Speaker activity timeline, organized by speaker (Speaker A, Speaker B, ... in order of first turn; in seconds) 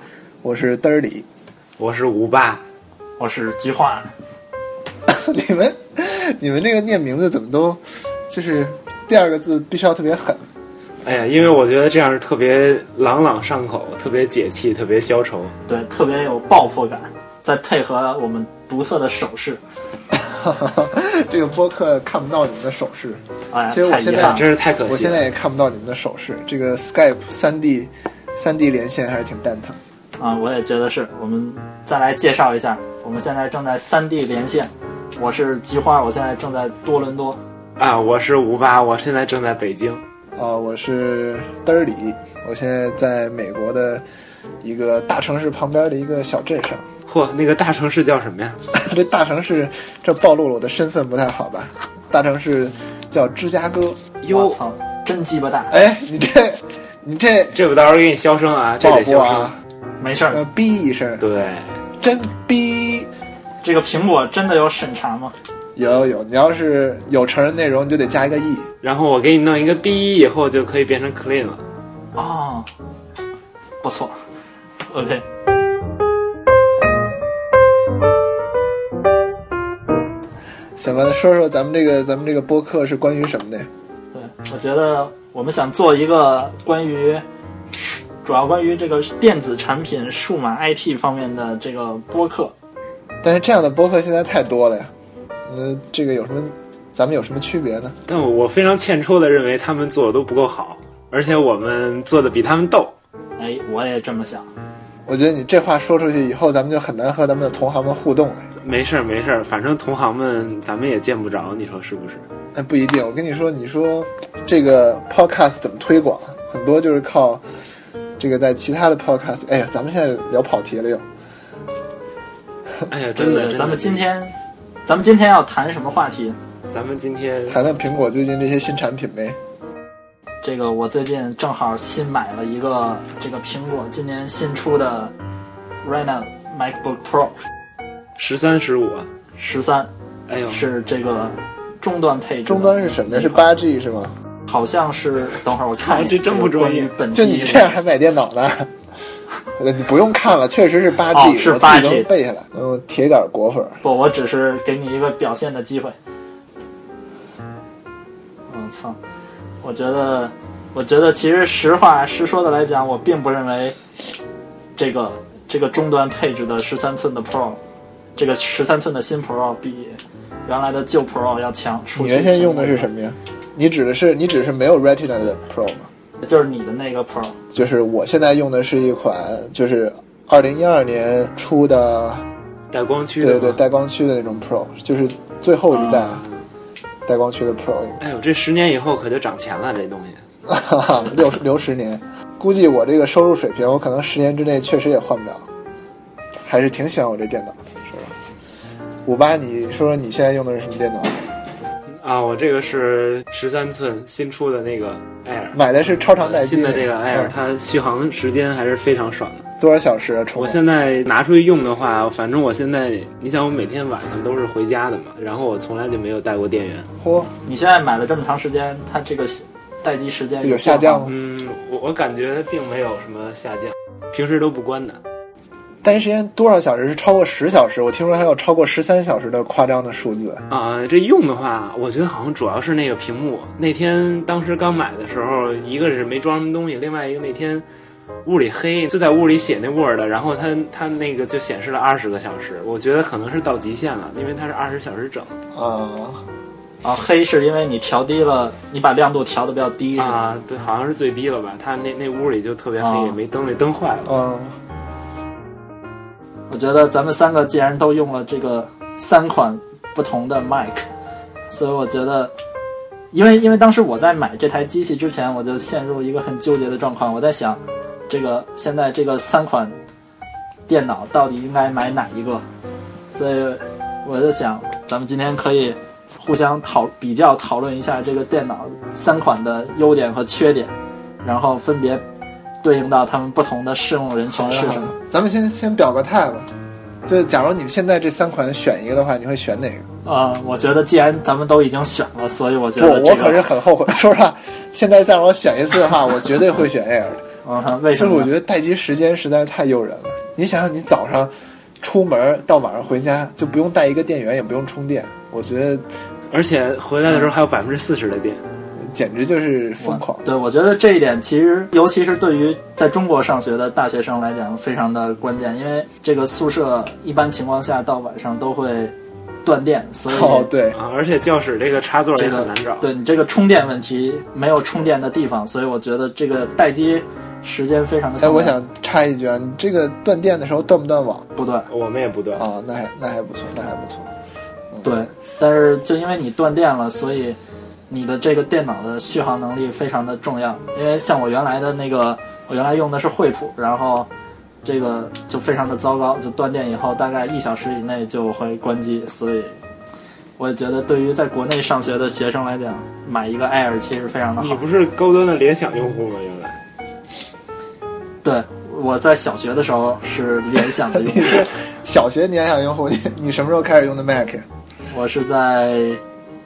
Speaker A: 0.4-1.2, 5.1-10.4, 20.1-29.8, 40.4-44.0, 44.6-46.8, 48.7-54.0, 55.7-57.6, 58.8-59.6, 60.3-61.2, 62.0-63.1, 65.8-68.7, 80.8-83.7, 93.2-94.9, 95.5-98.0, 105.0-108.5, 112.5-117.4, 118.2-121.0, 127.5-129.4, 142.4-144.1, 147.1-148.7, 149.6-153.8, 171.9-175.9, 177.5-182.2, 183.2-186.2, 187.1-188.0, 190.5-195.5, 196.4-198.1, 199.0-201.2, 205.5-207.3, 209.6-210.6, 217.0-217.3, 220.4-221.1, 225.8-230.4, 245.5-246.2, 254.0-254.6, 284.3-286.5, 287.0-289.9, 292.8-297.2, 297.9-305.9, 308.8-310.2, 320.1-320.8, 328.2-331.2, 332.3-334.1, 334.7-335.0, 360.9-364.4
Speaker B: 1.8-2.6, 11.0-15.5, 24.1-25.3, 37.8-40.0, 47.1-48.6, 54.2-54.6, 57.5-59.5, 61.2-61.8, 68.8-71.6, 98.1-102.9, 108.6-112.2, 122.9-124.0, 126.7-127.6, 138.2-139.1, 140.3-140.7, 145.8-146.9, 182.7-183.6, 185.9-186.4, 188.0-190.2, 201.9-205.6, 206.2-209.4, 210.3-216.9, 221.1-225.0, 230.5-237.6, 238.2-245.3, 249.9-254.1, 306.3-308.4, 320.7-322.9, 331.7-332.4, 354.4-356.6
Speaker C: 3.2-4.1, 15.7-19.6, 23.5-24.5, 30.2-37.4, 54.3-55.8, 60.0-60.4, 63.6-65.3, 72.1-72.7, 73.8-74.2, 74.8-75.2, 84.1-92.5, 103.4-104.5, 123.2-124.3, 124.8-126.4, 130.4-135.1, 135.8-137.4, 139.3-139.9, 140.5-143.5, 144.5-147.8, 151.1-152.1, 153.8-155.9, 158.5-159.0, 159.6-163.8, 164.8-167.6, 168.2-172.9, 176.2-177.3, 217.4-221.1, 246.8-250.2, 252.8-253.2, 256.5-260.9, 261.5-262.3, 263.1-269.8, 270.7-272.4, 273.1-282.0, 282.6-284.9, 290.0-293.5, 297.4-298.3, 309.8-320.5, 322.1-328.5, 331.4-331.7, 334.8-337.4, 337.9-344.1, 344.6-349.6, 350.4-354.6, 358.2-361.4, 364.9-366.0